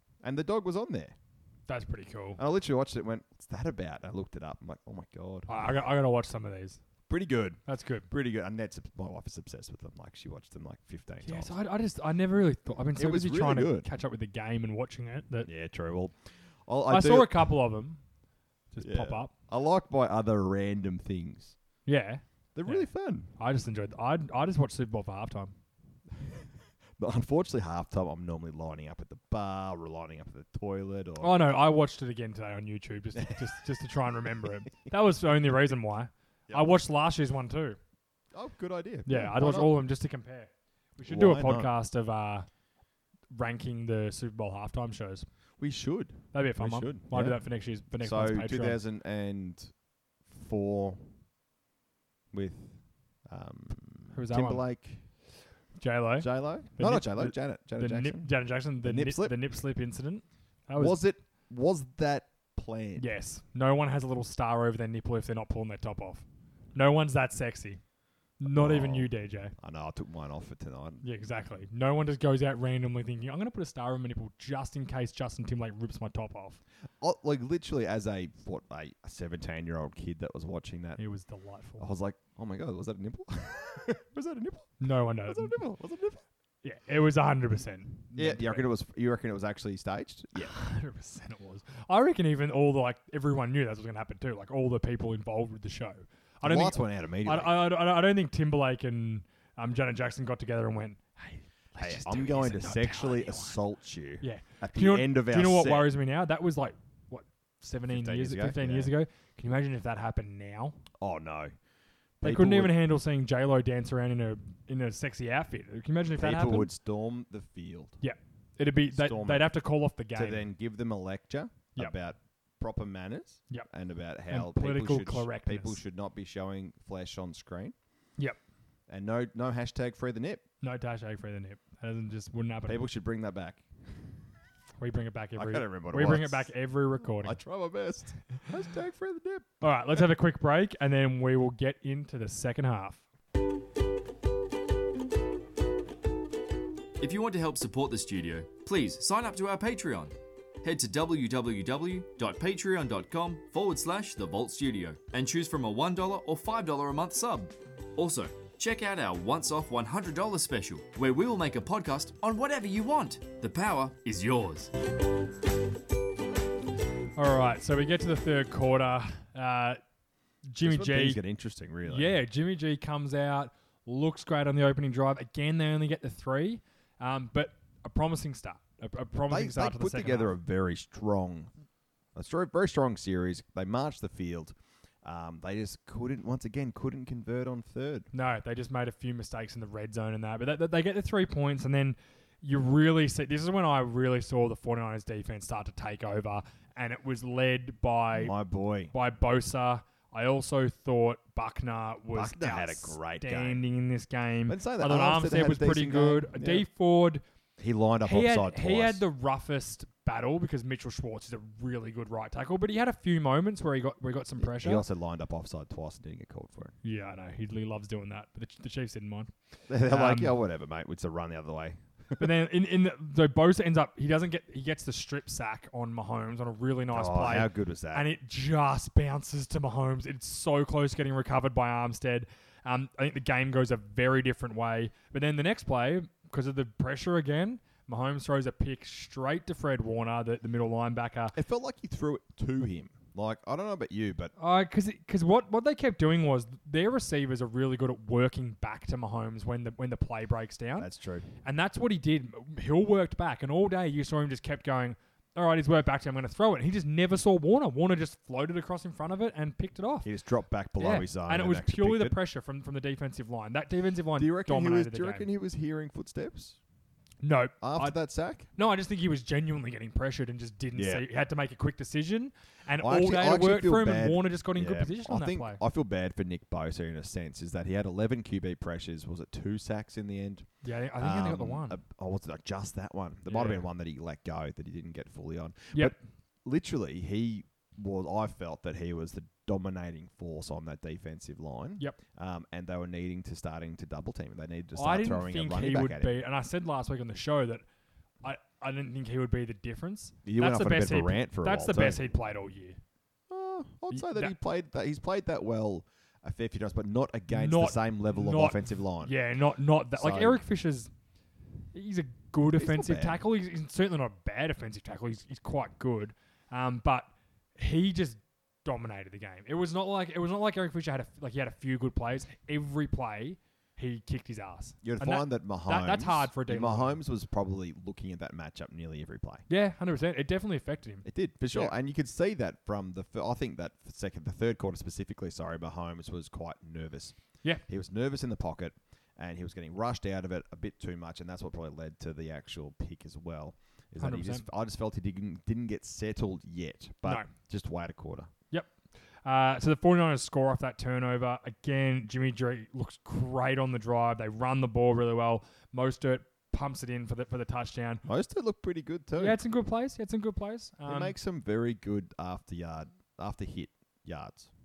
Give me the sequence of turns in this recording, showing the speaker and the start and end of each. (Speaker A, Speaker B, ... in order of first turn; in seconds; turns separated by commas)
Speaker A: 0.2-1.1, Speaker B: 1.7-2.4, Speaker A: 2.4-5.5, Speaker B: 5.5-6.8, Speaker A: 7.1-11.6, Speaker B: 7.7-8.1, Speaker B: 11.2-15.5, Speaker A: 12.9-13.9, Speaker A: 15.4-17.5, Speaker B: 16.9-18.0, Speaker B: 18.7-19.3, Speaker A: 18.8-21.6, Speaker B: 21.9-22.9, Speaker A: 22.6-23.3, Speaker B: 23.4-25.5, Speaker A: 26.1-31.4, Speaker B: 31.2-37.8, Speaker A: 33.1-34.7, Speaker A: 38.3-39.8, Speaker B: 39.1-42.5, Speaker A: 41.0-41.7, Speaker B: 43.3-45.3, Speaker A: 45.6-47.4, Speaker B: 46.3-48.8, Speaker A: 47.9-49.7, Speaker A: 50.3-51.1, Speaker A: 52.3-55.0, Speaker B: 54.1-54.6, Speaker B: 55.8-61.0, Speaker A: 56.2-59.4, Speaker A: 60.8-63.1, Speaker B: 63.0-67.8, Speaker B: 68.4-69.5, Speaker A: 68.5-71.0, Speaker B: 71.0-76.6, Speaker A: 77.0-81.0, Speaker B: 81.0-81.8, Speaker A: 81.8-86.2, Speaker B: 84.8-85.6, Speaker B: 86.6-88.6, Speaker A: 88.2-90.6, Speaker B: 90.4-103.6, Speaker A: 96.4-97.6, Speaker A: 101.8-105.9, Speaker B: 104.2-110.8, Speaker A: 107.9-108.9, Speaker A: 111.0-111.5, Speaker A: 112.2-112.8, Speaker B: 112.2-116.7, Speaker A: 116.2-118.0, Speaker B: 118.0-120.5, Speaker A: 118.9-119.5, Speaker A: 120.1-127.8, Speaker B: 124.3-125.8, Speaker A: 128.9-130.4, Speaker B: 130.6-132.8, Speaker A: 132.7-133.7, Speaker B: 134.8-137.4, Speaker A: 135.4-136.5, Speaker A: 137.2-140.1, Speaker B: 139.6-143.0, Speaker C: 147.0-164.7, Speaker B: 167.2-169.8, Speaker B: 170.5-171.2, Speaker A: 170.6-172.2, Speaker B: 171.9-180.3, Speaker A: 179.3-181.5, Speaker A: 182.2-188.1, Speaker B: 188.1-198.3, Speaker A: 198.1-198.9, Speaker B: 198.9-207.2, Speaker A: 202.1-203.6, Speaker A: 204.5-206.7, Speaker A: 207.6-209.0, Speaker B: 208.0-214.8, Speaker A: 214.4-216.7, Speaker B: 216.8-219.3, Speaker A: 219.7-222.3, Speaker B: 219.8-220.3, Speaker B: 222.2-241.3, Speaker A: 226.9-228.1, Speaker A: 241.3-244.3, Speaker B: 244.4-250.9, Speaker A: 250.8-251.3, Speaker B: 251.4-260.1, Speaker A: 260.0-262.2, Speaker B: 260.8-265.3, Speaker A: 264.2-266.6, Speaker B: 267.2-267.9, Speaker A: 267.6-268.5, Speaker B: 268.6-275.6, Speaker A: 270.8-271.0, Speaker A: 272.8-280.5, Speaker B: 280.6-281.8, Speaker A: 281.0-296.1, Speaker B: 283.3-283.6, Speaker B: 294.8-297.6, Speaker B: 298.2-302.8, Speaker A: 300.2-302.0, Speaker A: 303.3-309.2, Speaker B: 303.9-304.3, Speaker B: 307.3-310.9, Speaker A: 310.0-310.4, Speaker B: 311.7-327.0, Speaker A: 312.6-313.2, Speaker A: 324.8-329.5, Speaker B: 329.5-331.7, Speaker A: 331.1-337.2, Speaker A: 337.7-348.3, Speaker B: 344.0-344.4, Speaker B: 349.2-358.0, Speaker A: 358.1-359.4, Speaker B: 359.2-361.1, Speaker A: 360.9-364.5